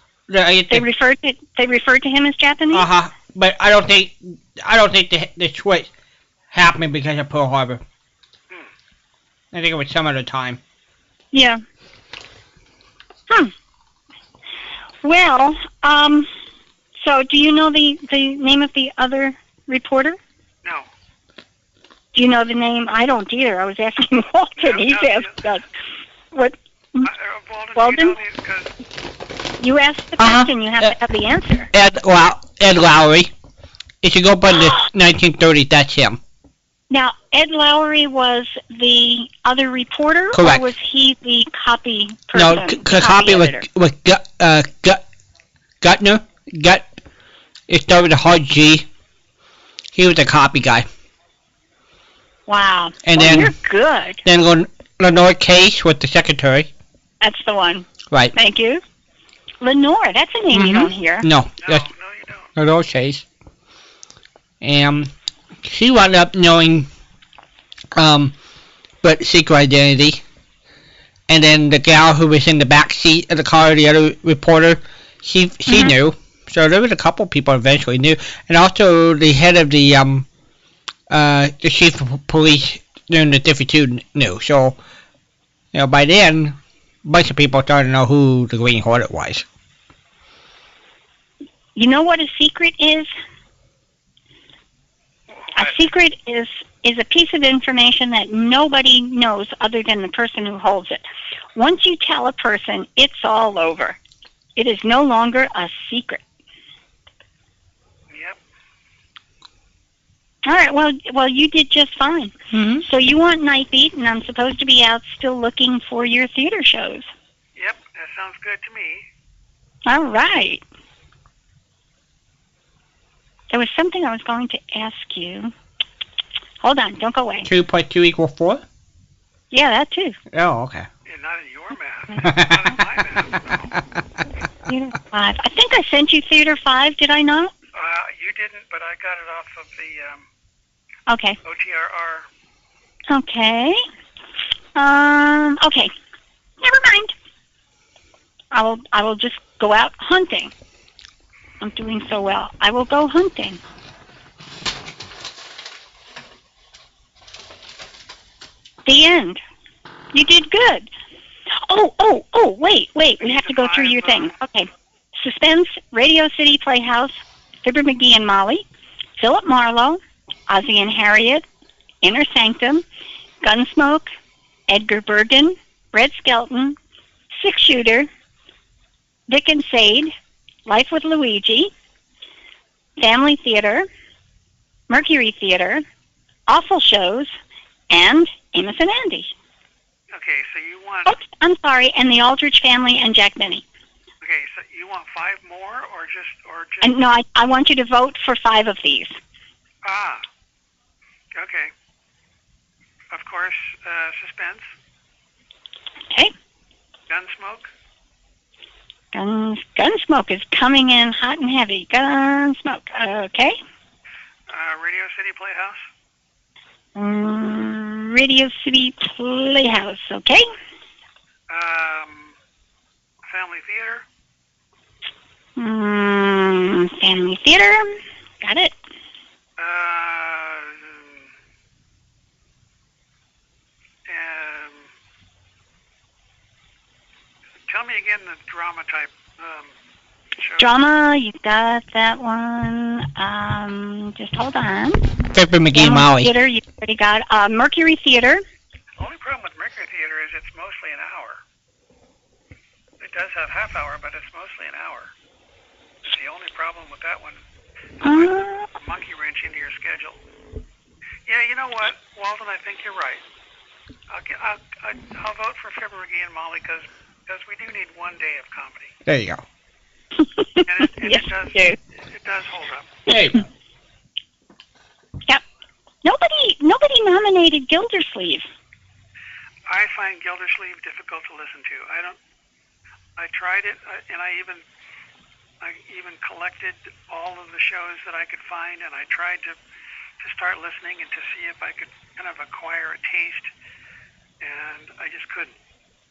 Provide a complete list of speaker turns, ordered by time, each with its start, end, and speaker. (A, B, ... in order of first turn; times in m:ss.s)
0:00.3-0:00.9 A
0:00.7-0:02.9 B
0:02.7-0:05.9 A
0:06.5-0:07.8 A
0:09.5-0:10.6 A
0:11.3-0:11.6 B
0:15.0-0:16.3 B
0:17.0-0:20.2 B
0:22.1-0:25.7 B
0:24.6-0:25.4 C
0:26.3-0:27.1 B
0:27.0-0:28.7 C
0:27.8-0:28.2 B
0:29.6-0:31.7 B
0:30.2-0:30.9 A
0:31.7-0:33.3 A
0:34.0-0:36.2 A
0:36.9-0:43.6 B
0:40.3-0:40.7 A
0:42.3-0:45.0 A
0:45.8-0:46.9 A
0:47.7-0:48.9 A
0:49.9-0:50.9 A
0:52.5-0:54.2 B
0:53.0-0:53.5 A
0:54.3-0:56.7 A
0:57.2-0:58.8 B
0:58.1-0:58.4 A
0:59.6-1:01.3 B
1:00.5-1:01.9 A
1:01.6-1:02.5 C
1:02.6-1:03.2 A
1:04.6-1:05.1 A
1:05.6-1:06.9 A
1:08.0-1:08.4 A
1:09.0-1:10.2 A
1:11.3-1:20.3 A
1:15.7-1:15.9 B
1:21.1-1:24.8 A
1:25.7-1:29.4 A
1:31.8-1:33.1 B
1:35.3-1:35.8 C
1:35.6-1:41.0 B
1:41.6-1:44.0 B
1:44.6-1:46.2 B
1:48.1-1:48.4 C
1:50.4-1:57.1 B
1:52.5-1:52.8 A
1:57.6-1:59.1 C
1:59.9-2:00.6 B
2:03.5-2:05.5 B
2:06.6-2:07.5 B
2:07.5-2:08.6 A
2:09.5-2:10.2 B
2:10.3-2:10.9 A
2:11.1-2:13.8 C
2:12.2-2:12.8 A
2:14.7-2:17.5 B
2:17.7-2:20.3 C
2:21.1-2:21.4 B
2:21.4-2:22.3 C
2:23.1-2:23.8 B
2:24.8-2:25.9 B
2:26.6-2:27.1 B
2:28.5-2:30.5 B
2:31.6-2:33.6 B
2:38.8-2:39.4 B
2:40.1-2:40.9 B
2:41.5-2:48.6 B
2:43.2-2:44.3 C
2:49.2-2:51.5 B
2:52.0-2:52.8 B
2:53.4-2:54.1 B
2:54.7-2:56.8 B
2:57.3-2:58.1 B
2:59.3-3:00.1 B
3:00.7-3:01.7 B
3:03.0-3:03.9 B
3:04.9-3:05.8 B
3:06.5-3:07.3 B
3:07.9-3:09.3 B
3:10.1-3:11.1 C
3:11.1-3:13.6 B
3:14.2-3:17.0 C
3:16.8-3:19.2 B
3:19.8-3:20.2 C
3:21.3-3:21.7 C
3:23.1-3:24.7 C
3:27.1-3:27.7 C
3:29.1-3:33.6 B
3:34.5-3:35.9 C
3:37.0-3:40.5 B
3:41.5-3:42.4 C
3:43.2-3:44.0 C
3:45.6-3:48.8 B
3:49.6-3:51.3 C
3:54.1-3:54.9 C
3:57.7-3:59.8 C
4:00.4-4:00.7 C
4:00.6-4:05.1 B
4:05.3-4:06.3 A
4:05.7-4:08.4 B
4:09.0-4:11.4 C
4:13.0-4:15.1 C
4:16.0-4:17.4 C
4:18.0-4:20.2 C
4:18.0-4:18.7 B
4:21.3-4:23.2 C
4:24.1-4:29.0 C
4:29.1-4:29.4 A
4:30.2-4:31.8 B
4:30.6-4:33.0 C
4:33.1-4:33.4 A
4:36.0-4:38.5 B
4:39.7-4:42.2 C
4:43.2-4:44.6 C
4:45.6-4:49.6 C
4:50.2-4:53.5 C
4:54.4-4:55.6 C